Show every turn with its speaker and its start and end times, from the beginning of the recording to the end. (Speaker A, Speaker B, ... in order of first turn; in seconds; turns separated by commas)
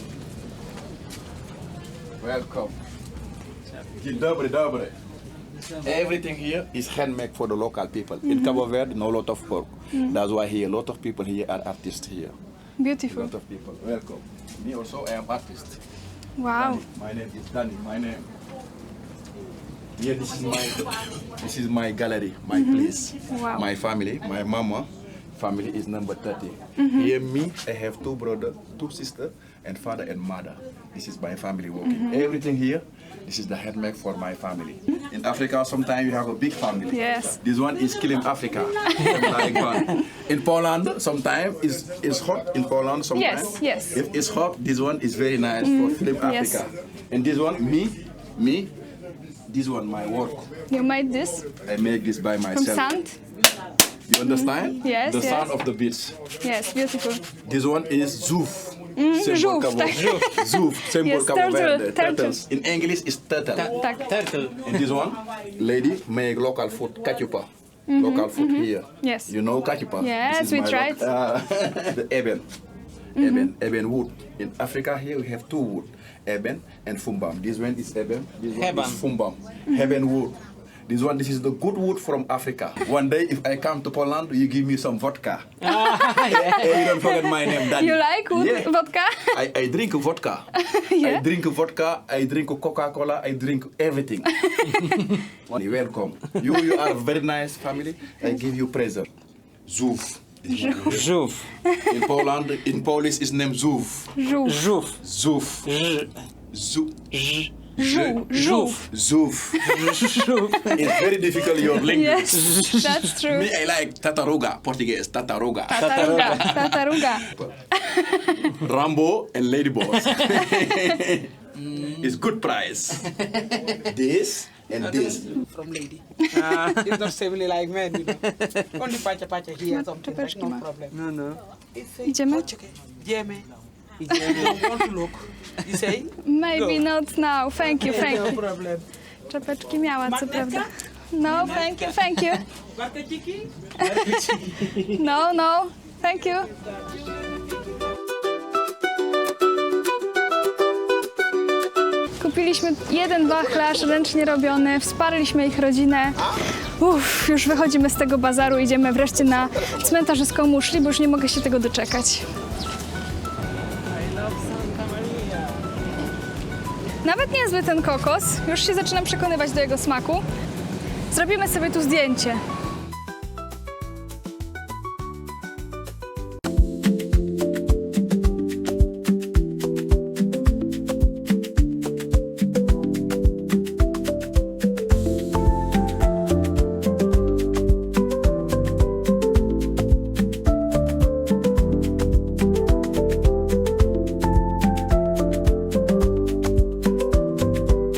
Speaker A: 2.2-2.8, Speaker A: 4.0-5.0, Speaker A: 5.8-12.3, Speaker B: 8.3-8.6, Speaker B: 12.8-13.3, Speaker A: 13.1-15.8, Speaker B: 16.4-16.8, Speaker A: 16.5-18.3, Speaker A: 20.0-48.7, Speaker B: 22.5-23.6, Speaker B: 26.8-27.1, Speaker B: 31.9-32.2, Speaker B: 36.9-37.4, Speaker B: 43.1-44.0, Speaker B: 45.6-46.6, Speaker A: 49.5-50.5, Speaker B: 50.7-51.5, Speaker A: 51.6-52.9, Speaker B: 52.5-53.1, Speaker A: 54.1-56.2, Speaker B: 54.2-55.5, Speaker B: 56.4-57.2, Speaker A: 57.4-63.7, Speaker B: 59.0-62.4, Speaker C: 59.9-60.3, Speaker C: 63.6-64.8, Speaker B: 63.7-64.1, Speaker A: 64.6-72.5, Speaker B: 67.9-69.3, Speaker B: 70.0-71.1, Speaker A: 73.2-85.5, Speaker B: 73.2-73.5, Speaker C: 78.5-79.0, Speaker C: 85.6-87.0, Speaker B: 85.7-89.4, Speaker A: 86.3-88.7, Speaker A: 89.2-94.5, Speaker B: 90.6-91.2, Speaker B: 94.4-94.8, Speaker A: 95.3-99.1, Speaker A: 99.7-101.1, Speaker B: 100.5-101.0, Speaker C: 100.8-101.5, Speaker A: 101.9-104.1, Speaker B: 104.2-104.7, Speaker C: 104.5-105.0, Speaker A: 105.0-105.7, Speaker C: 105.7-106.1, Speaker A: 106.5-107.1, Speaker C: 107.1-107.5, Speaker A: 107.8-108.3, Speaker B: 107.8-108.9, Speaker C: 108.3-108.8, Speaker A: 108.8-110.0, Speaker C: 109.6-111.2, Speaker A: 110.7-112.6, Speaker B: 111.8-113.5, Speaker C: 112.3-113.0, Speaker A: 113.2-117.5, Speaker B: 115.7-118.5, Speaker C: 115.9-116.5, Speaker A: 118.5-125.4, Speaker D: 125.1-128.2, Speaker C: 126.3-127.1, Speaker C: 128.3-128.7, Speaker D: 128.7-131.0, Speaker B: 129.7-130.7, Speaker C: 130.9-131.4, Speaker D: 131.8-133.5, Speaker B: 132.1-132.5, Speaker D: 134.0-136.1, Speaker B: 136.2-138.5, Speaker D: 137.9-138.8, Speaker B: 139.3-142.4, Speaker D: 140.3-140.6, Speaker D: 141.4-141.7, Speaker D: 142.8-143.5, Speaker B: 143.8-146.5, Speaker B: 152.2-162.2, Speaker D: 164.4-165.2, Speaker B: 167.0-170.2, Speaker B: 171.1-172.4